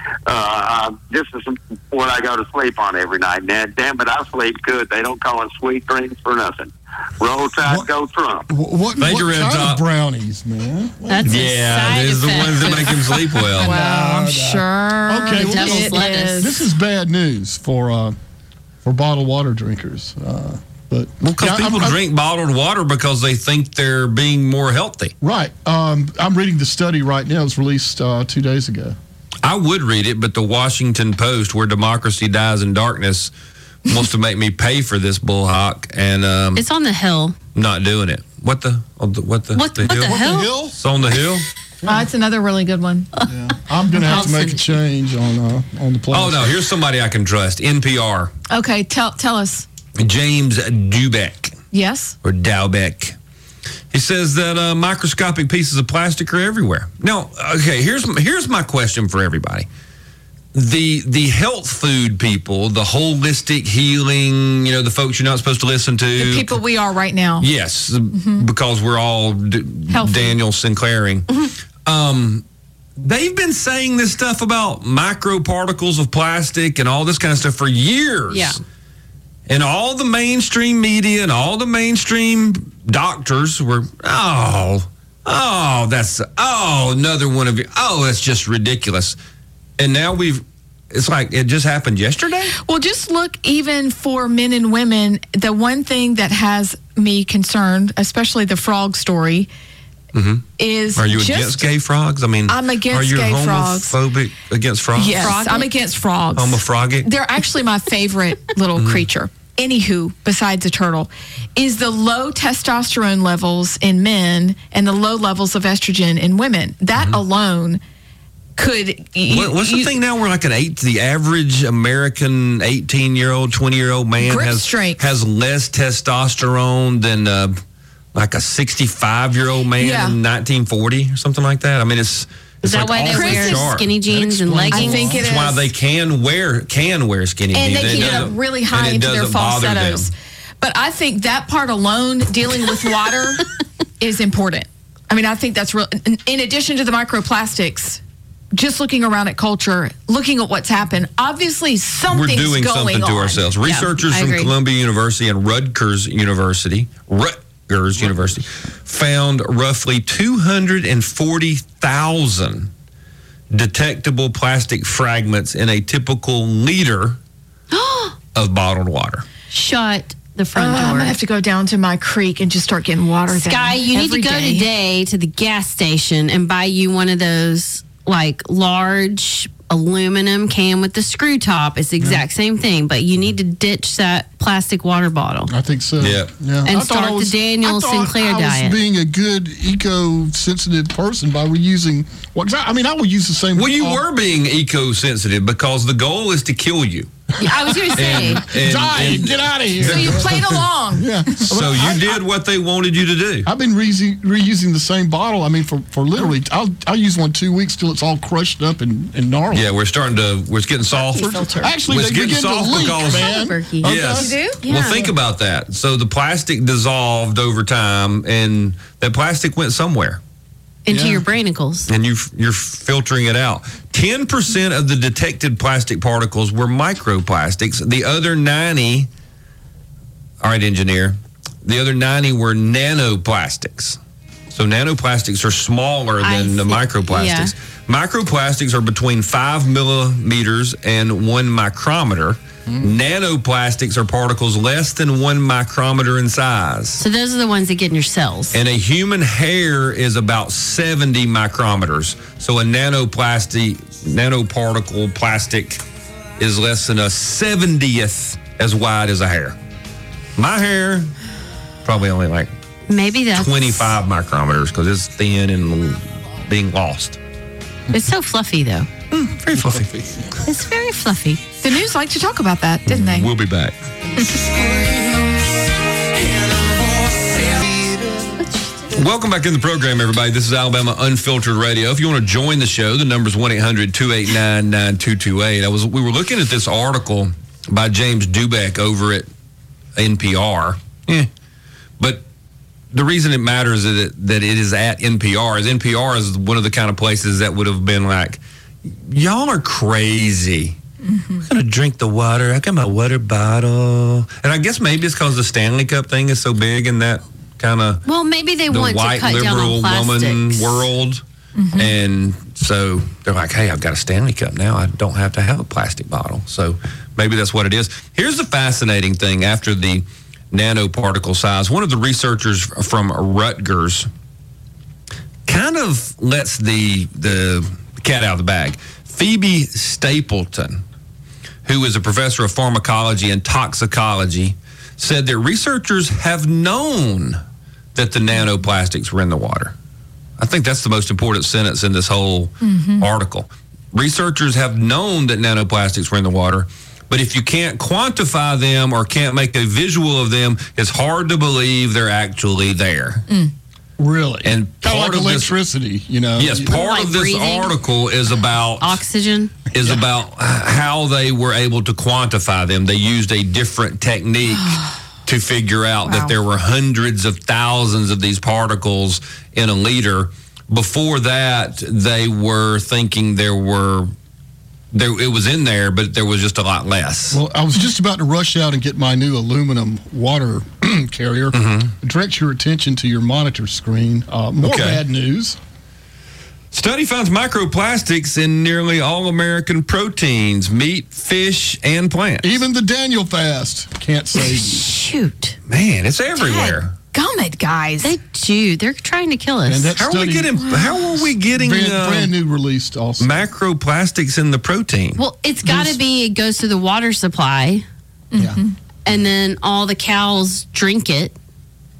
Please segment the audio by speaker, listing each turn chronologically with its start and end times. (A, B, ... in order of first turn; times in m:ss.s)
0:00.2-0:08.5 A
0:08.5-0:11.5 B
0:09.0-0:09.8 C
0:11.1-0:13.3 D
0:11.2-0:13.8 C
0:13.6-0:18.1 B
0:13.6-0:16.6 E
0:15.3-0:16.5 D
0:18.8-0:22.0 B
0:21.2-0:25.1 C
0:25.2-0:29.0 B
0:29.4-0:33.3 C
0:33.8-0:36.6 C
0:36.6-0:37.4 D
0:37.5-0:41.4 C
0:39.5-0:40.5 D
0:40.0-0:40.8 B
0:41.8-0:43.1 E
0:43.2-0:46.6 B
0:44.0-0:44.8 D
0:46.1-0:48.3 C
0:48.5-0:49.6 E
0:50.0-0:51.6 C
0:51.7-0:52.2 E
0:52.2-0:53.2 C
0:53.9-0:59.7 C
1:00.5-1:06.6 C
1:06.2-1:07.5 E
1:07.4-1:12.4 C
1:08.1-1:08.4 E
1:09.9-1:10.4 E
1:13.0-1:18.6 C
1:18.3-1:18.6 D
1:19.5-1:29.2 C
1:29.8-1:32.6 C
1:32.6-1:39.5 E
1:40.1-1:45.4 C
1:40.6-1:41.6 E
1:42.5-1:44.0 E
1:44.9-1:57.8 E
1:45.0-1:45.7 D
1:46.3-1:47.1 C
1:48.8-1:49.0 C
1:58.6-1:59.9 E
1:59.3-2:07.6 C
2:04.2-2:05.0 E
2:08.1-2:20.1 C
2:09.8-2:10.2 E
2:12.6-2:15.2 D
2:13.1-2:13.7 E
2:14.7-2:15.7 E
2:17.5-2:28.0 E
2:17.7-2:18.3 D
2:28.5-2:33.5 E
2:32.1-2:42.7 C
2:33.6-2:34.5 D
2:43.5-2:47.2 C
2:47.7-2:48.2 D
2:48.3-2:49.2 C
2:49.5-2:51.2 D
2:50.5-2:54.7 E
2:53.3-3:05.5 D
3:05.5-3:14.0 B
3:06.0-3:06.3 C
3:06.6-3:08.8 D
3:13.5-3:17.1 C
3:17.4-3:18.5 D
3:17.4-3:22.2 B
3:17.9-3:20.6 C
3:19.8-3:22.0 E
3:21.5-3:23.5 C
3:23.4-3:29.7 B
3:29.5-3:40.2 C
3:30.9-3:31.8 E
3:31.5-3:34.4 B
3:32.8-3:33.9 D
3:34.1-3:34.6 E
3:34.6-3:35.1 D
3:40.8-3:41.9 D
3:40.9-3:41.2 B
3:41.9-3:49.1 C
3:50.4-3:54.0 C
3:54.5-4:07.0 C
3:56.2-3:57.5 D
4:07.0-4:08.6 D
4:08.5-4:15.8 C
4:16.4-4:19.6 C
4:20.4-4:21.1 C
4:21.8-4:22.5 C
4:22.9-4:24.0 D
4:23.3-4:27.2 C
4:27.9-4:28.9 D
4:29.1-4:30.3 C
4:29.6-4:29.8 B
4:30.4-4:31.4 D
4:31.6-4:33.3 E
4:32.8-4:33.8 C
4:38.9-4:49.3 C
4:50.0-4:51.3 C
4:52.0-4:52.2 C
4:52.9-5:00.8 C
5:01.4-5:08.0 C
5:08.0-5:10.8 D
5:08.7-5:11.2 C
5:11.6-5:11.9 E
5:11.7-5:24.1 C
5:25.5-5:30.8 C
5:31.6-5:37.4 C
5:37.9-5:39.7 C
5:40.4-5:53.2 C
5:42.6-5:43.0 E
5:54.0-5:56.7 B
5:54.4-5:55.6 C
5:56.4-5:59.0 C
5:56.6-5:57.7 D
5:58.8-5:59.5 D
5:59.7-6:14.1 C
6:06.1-6:06.3 E
6:14.9-6:17.4 C
6:17.3-6:25.6 B
6:21.5-6:21.9 C
6:24.6-6:25.0 C
6:26.7-6:32.6 C
6:32.4-6:34.9 B
6:34.3-6:35.6 D
6:35.7-6:36.9 C
6:36.4-6:38.2 E
6:38.0-6:39.9 D
6:39.7-6:40.5 B
6:40.0-6:42.3 C
6:40.6-6:41.0 E
6:41.5-6:43.4 B
6:43.2-6:45.9 C
6:45.2-6:47.8 D
6:48.3-6:48.7 E
6:48.4-6:48.6 B
6:49.0-6:51.3 D